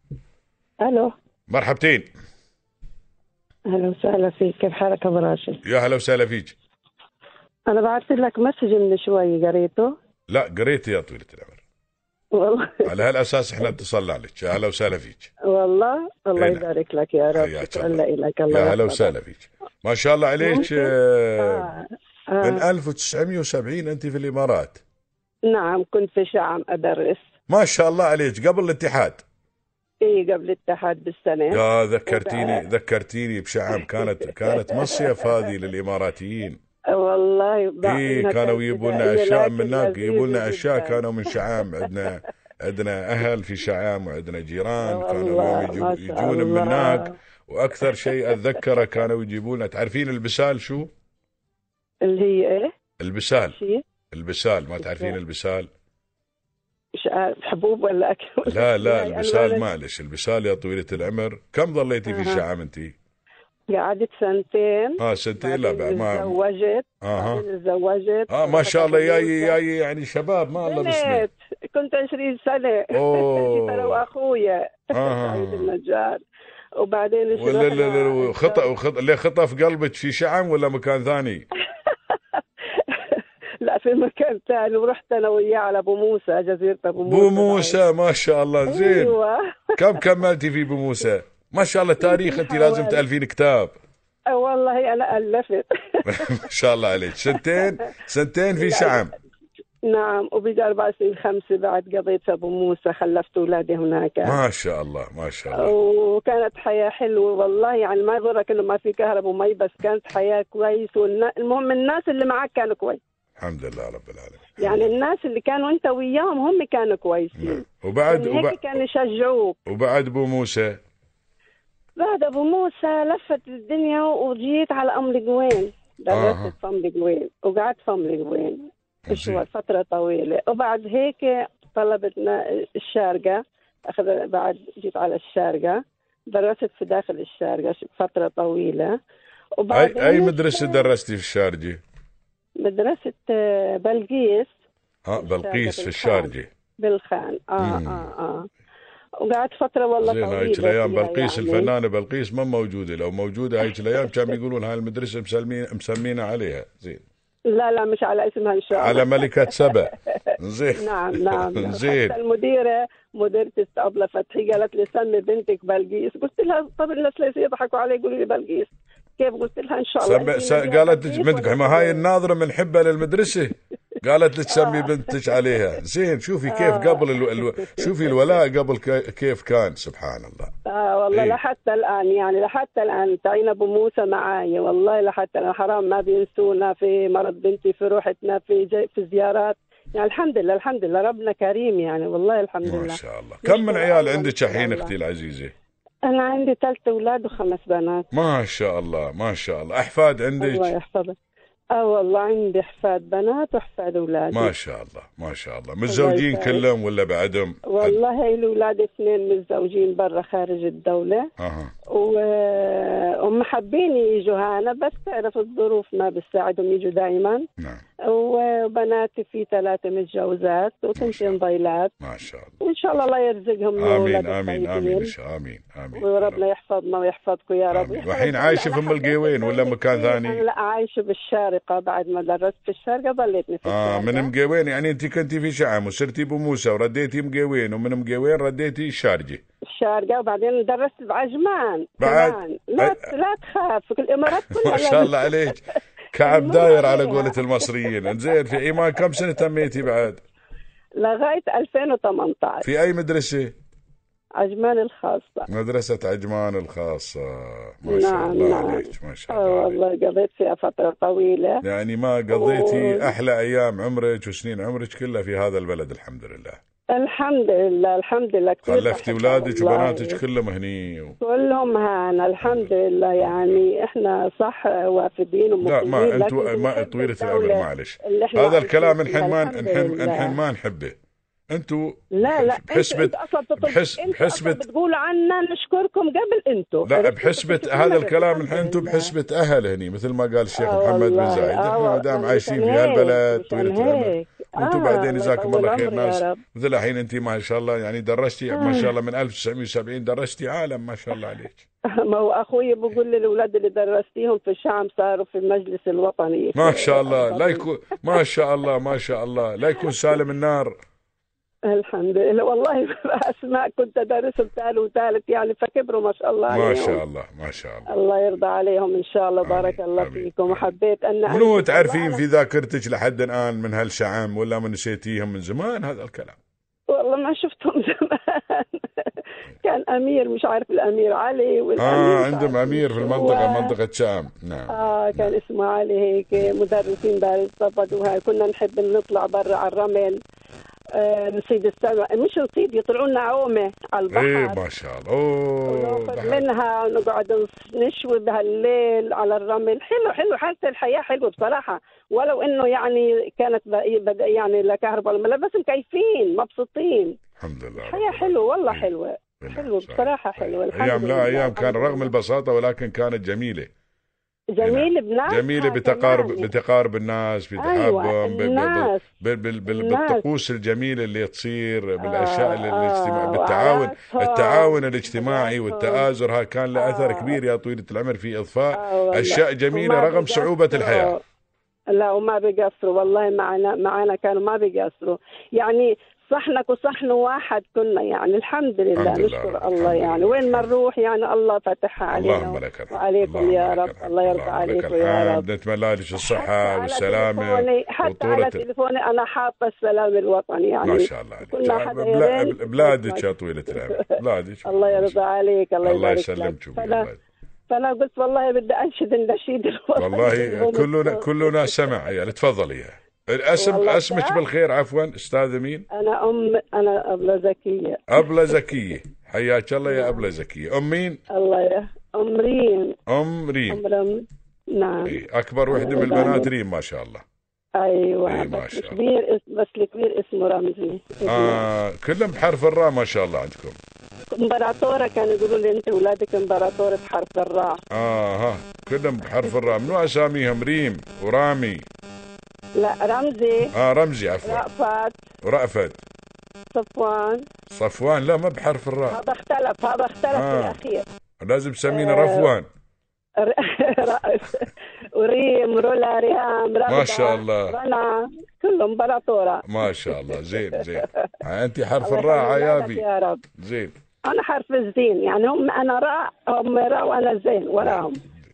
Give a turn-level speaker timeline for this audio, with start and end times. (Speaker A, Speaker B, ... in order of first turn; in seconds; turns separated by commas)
Speaker A: 0.8-1.1, Speaker B: 1.5-2.1, Speaker A: 3.7-5.6, Speaker B: 5.6-6.5, Speaker A: 7.7-9.9, Speaker B: 10.3-11.6, Speaker A: 12.3-12.9, Speaker B: 12.8-15.3, Speaker A: 15.5-19.1, Speaker B: 16.4-16.6, Speaker B: 17.3-21.7, Speaker A: 20.4-22.6, Speaker B: 22.4-24.8, Speaker A: 25.5-27.3, Speaker B: 27.5-29.2, Speaker A: 30.0-32.6, Speaker B: 31.5-36.6, Speaker A: 33.7-35.5, Speaker A: 36.9-42.1, Speaker B: 37.8-50.9, Speaker A: 44.8-47.1, Speaker A: 47.9-49.0, Speaker A: 52.0-52.7, Speaker B: 53.0-53.6, Speaker A: 53.5-53.8, Speaker B: 54.1-55.7, Speaker A: 54.8-55.1, Speaker A: 56.9-59.7, Speaker B: 58.5-62.9, Speaker A: 62.1-62.4, Speaker A: 63.7-69.6, Speaker B: 65.0-66.4, Speaker B: 67.0-67.4, Speaker B: 68.3-71.2, Speaker A: 70.6-76.2, Speaker B: 72.9-74.0, Speaker B: 74.9-75.7, Speaker A: 76.8-78.7, Speaker B: 77.3-81.5, Speaker A: 81.8-87.8, Speaker B: 87.0-89.2, Speaker A: 88.7-90.0, Speaker B: 89.8-93.7, Speaker A: 92.0-93.0, Speaker A: 94.3-96.4, Speaker B: 96.0-99.1, Speaker A: 97.2-97.8, Speaker A: 98.6-99.0, Speaker A: 99.8-104.4, Speaker B: 104.2-105.7, Speaker A: 105.5-113.0, Speaker B: 113.4-114.8, Speaker A: 114.6-119.6, Speaker B: 117.4-118.8, Speaker B: 119.7-120.8, Speaker A: 122.0-138.9, Speaker B: 126.1-126.5, Speaker B: 129.1-129.4, Speaker A: 139.6-140.9, Speaker B: 139.7-141.8, Speaker A: 142.6-144.5, Speaker B: 145.1-146.5, Speaker A: 145.2-148.5, Speaker B: 147.6-148.1, Speaker A: 149.2-151.7, Speaker B: 150.0-157.0, Speaker A: 154.0-154.2, Speaker A: 157.5-172.0, Speaker B: 158.7-162.2, Speaker B: 170.0-180.5, Speaker A: 174.5-175.4, Speaker A: 176.4-178.4, Speaker A: 180.6-194.9, Speaker B: 181.1-181.4, Speaker B: 192.6-195.5, Speaker A: 196.0-198.1, Speaker B: 198.1-200.7, Speaker A: 200.4-201.1, Speaker A: 201.7-204.5, Speaker B: 204.3-208.0, Speaker A: 205.9-206.7, Speaker A: 207.7-211.3, Speaker B: 211.4-211.7, Speaker A: 211.9-217.5, Speaker A: 218.1-221.9, Speaker B: 220.9-221.4, Speaker B: 222.0-222.6, Speaker A: 222.6-225.1, Speaker B: 223.8-226.4, Speaker A: 225.9-234.3, Speaker B: 227.7-230.4, Speaker B: 233.7-239.4, Speaker A: 239.7-245.6, Speaker B: 242.0-243.1, Speaker B: 244.4-245.6, Speaker B: 246.1-250.2, Speaker A: 246.2-249.9, Speaker A: 251.0-252.7, Speaker B: 252.6-253.5, Speaker A: 254.4-255.5, Speaker B: 255.5-259.8, Speaker A: 257.9-261.6, Speaker B: 261.6-266.6, Speaker A: 262.3-263.1, Speaker A: 266.9-270.2, Speaker B: 268.6-271.1, Speaker A: 271.2-280.4, Speaker B: 272.4-273.6, Speaker B: 275.6-280.9, Speaker B: 281.5-284.6, Speaker A: 282.1-289.1, Speaker B: 286.9-301.6, Speaker A: 290.5-296.4, Speaker A: 298.5-298.9, Speaker A: 301.9-308.2, Speaker B: 306.6-310.7, Speaker A: 309.8-310.1, Speaker A: 311.7-317.0, Speaker B: 316.5-317.9, Speaker A: 317.9-322.2, Speaker B: 319.4-320.7, Speaker B: 321.3-326.4, Speaker A: 326.9-333.8, Speaker B: 331.8-335.3, Speaker A: 334.7-340.2, Speaker A: 340.9-344.6, Speaker B: 344.1-346.4, Speaker A: 345.7-357.1, Speaker B: 357.4-363.7, Speaker A: 357.8-362.1, Speaker A: 364.5-366.5, Speaker B: 364.6-381.1, Speaker A: 367.6-369.0, Speaker A: 369.7-370.2, Speaker A: 372.0-376.1, Speaker A: 376.8-377.4, Speaker A: 378.7-381.2, Speaker A: 381.9-395.4, Speaker B: 388.9-390.7, Speaker B: 392.1-398.6, Speaker A: 396.2-407.1, Speaker B: 400.8-405.2, Speaker B: 405.8-407.2, Speaker A: 407.7-412.1, Speaker B: 409.9-415.9, Speaker A: 413.6-414.4, Speaker A: 415.9-418.3, Speaker B: 418.1-421.2, Speaker A: 419.9-420.2, Speaker A: 421.3-423.0, Speaker B: 423.1-423.8, Speaker A: 423.7-426.5, Speaker B: 425.0-427.2, Speaker A: 427.8-431.7, Speaker B: 428.3-429.0, Speaker B: 431.2-433.8, Speaker A: 434.3-437.8, Speaker B: 437.9-441.9, Speaker A: 439.4-439.8, Speaker A: 442.8-443.7, Speaker B: 443.7-444.6, Speaker A: 444.4-445.2, Speaker B: 445.4-446.0, Speaker A: 446.7-447.4, Speaker B: 447.7-449.2, Speaker A: 449.1-451.1, Speaker B: 450.3-450.8, Speaker B: 451.4-452.7, Speaker A: 451.9-452.5, Speaker A: 453.4-461.3, Speaker B: 456.9-457.8, Speaker B: 459.6-463.0, Speaker A: 462.0-463.4, Speaker B: 463.6-463.9, Speaker A: 464.2-468.2